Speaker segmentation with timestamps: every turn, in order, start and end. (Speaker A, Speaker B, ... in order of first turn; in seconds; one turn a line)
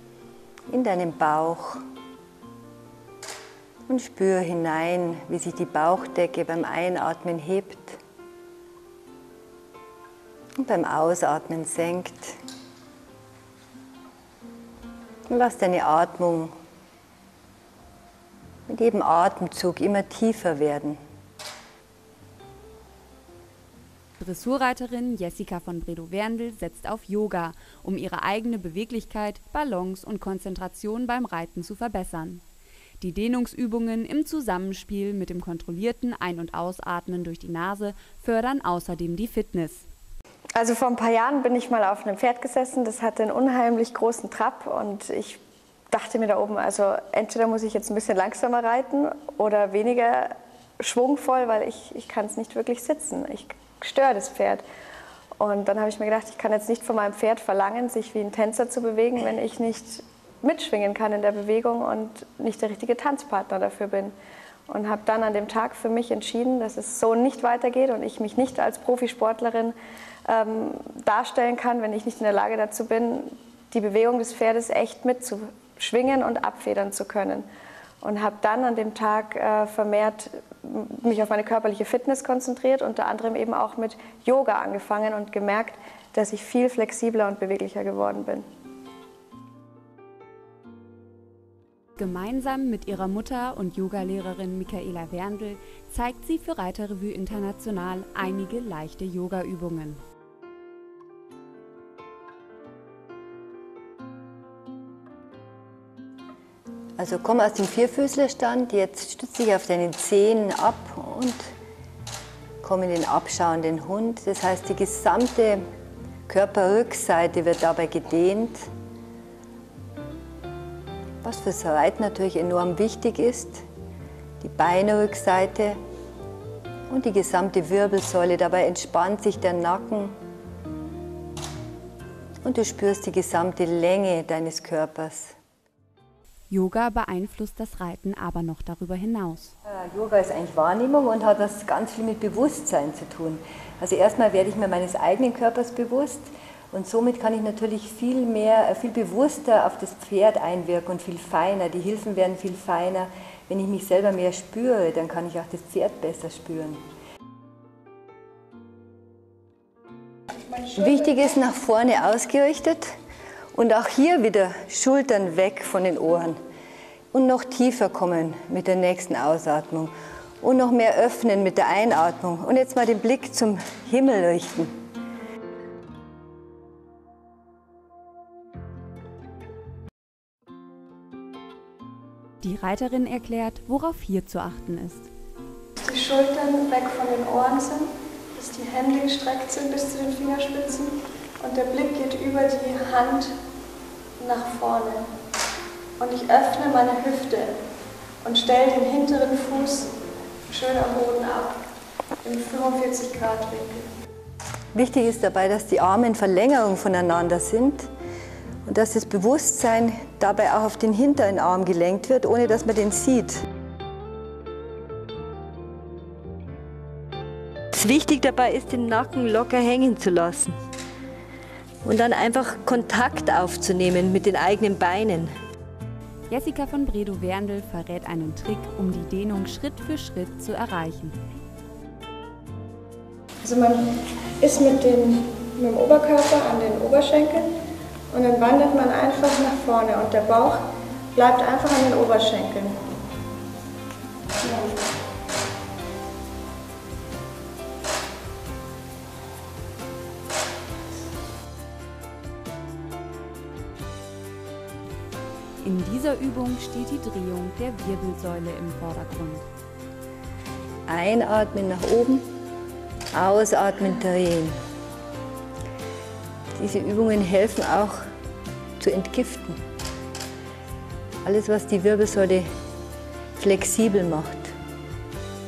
Speaker A: 0.7-1.8
Speaker A: 3.9-8.0
Speaker A: 10.6-12.4
Speaker A: 15.3-16.5
Speaker A: 18.7-21.0
Speaker B: 24.2-32.4
Speaker B: 33.0-39.8
Speaker C: 40.5-54.6
Speaker C: 55.4-64.1
Speaker C: 64.7-69.7
Speaker C: 70.3-77.5
Speaker C: 78.0-88.4
Speaker B: 92.0-100.0
Speaker A: 107.0-111.5
Speaker A: 112.6-115.6
Speaker A: 116.3-118.7
Speaker A: 121.2-123.6
Speaker A: 124.4-125.8
Speaker A: 126.9-130.2
Speaker A: 132.4-135.3
Speaker B: 136.5-139.5
Speaker A: 139.6-156.8
Speaker C: 160.3-161.3
Speaker A: 160.7-162.9
Speaker A: 163.5-166.4
Speaker A: 167.1-174.7
Speaker B: 182.4-185.1
Speaker C: 185.8-193.3
Speaker C: 194.2-195.1
Speaker C: 196.0-197.6
Speaker C: 198.2-199.9
Speaker C: 200.5-201.6
Speaker C: 202.2-203.9
Speaker A: 204.7-207.9
Speaker A: 208.6-213.4
Speaker A: 217.7-220.6
Speaker A: 221.8-225.3
Speaker B: 226.3-231.2
Speaker C: 233.4-237.5
Speaker C: 238.1-242.8
Speaker B: 255.6-259.5
Speaker A: 260.9-262.3
Speaker A: 263.1-264.6
Speaker A: 266.5-268.1
Speaker A: 268.8-269.6
Speaker A: 271.2-272.5
Speaker A: 273.4-274.5